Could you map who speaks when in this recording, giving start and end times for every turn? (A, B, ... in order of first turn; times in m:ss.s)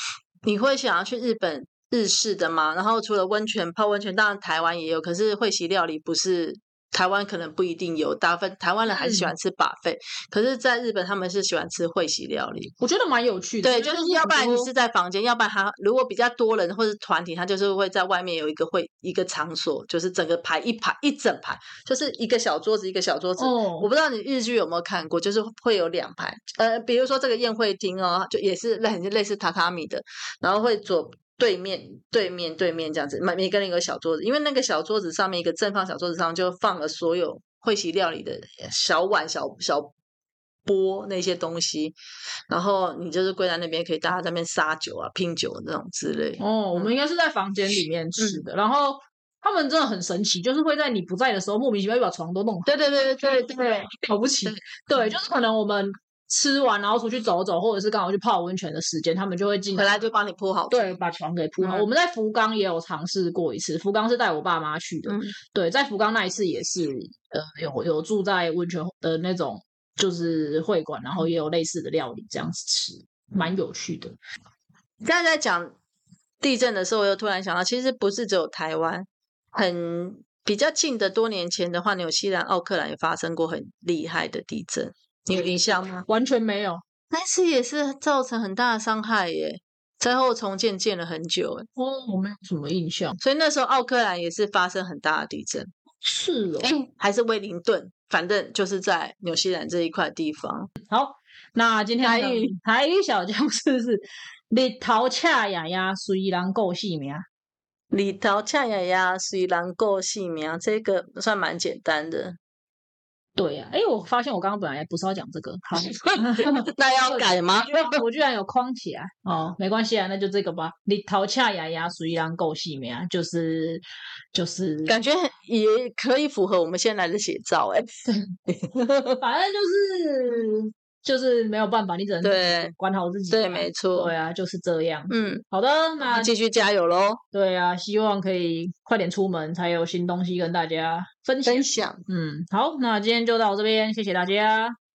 0:00.4-0:12.7 A
0:08.9-0:09.3 B
0:12.8-0:14.7 B
0:13.6-0:39.9 A
0:23.4-0:23.9 B
0:40.6-0:42.0 A
0:42.5-0:46.9 A
0:46.4-0:52.7 B
0:48.2-0:48.4 A
0:52.6-0:53.9 A
0:54.0-1:00.0 B
0:59.7-1:01.0 A
1:00.7-1:14.2 B
1:01.6-1:01.9 A
1:05.0-1:05.3 A
1:15.0-1:15.7 A
1:16.4-1:26.0 A
1:26.1-1:26.8 B
1:27.1-1:31.7 A
1:31.8-1:33.2 B
1:33.2-1:35.7 A
1:36.0-1:36.7 B
1:36.6-1:40.7 A
1:40.8-1:47.2 B
1:42.0-1:42.5 A
1:47.9-1:52.4 A
1:53.4-2:03.8 B
1:55.8-1:58.0 A
2:04.3-2:04.9 B
2:04.8-2:09.2 A
2:09.2-2:16.3 B
2:12.2-2:12.7 A
2:13.3-2:14.1 A
2:15.1-2:15.4 A
2:16.0-2:17.2 A
2:17.3-2:24.8 B
2:21.4-2:22.0 A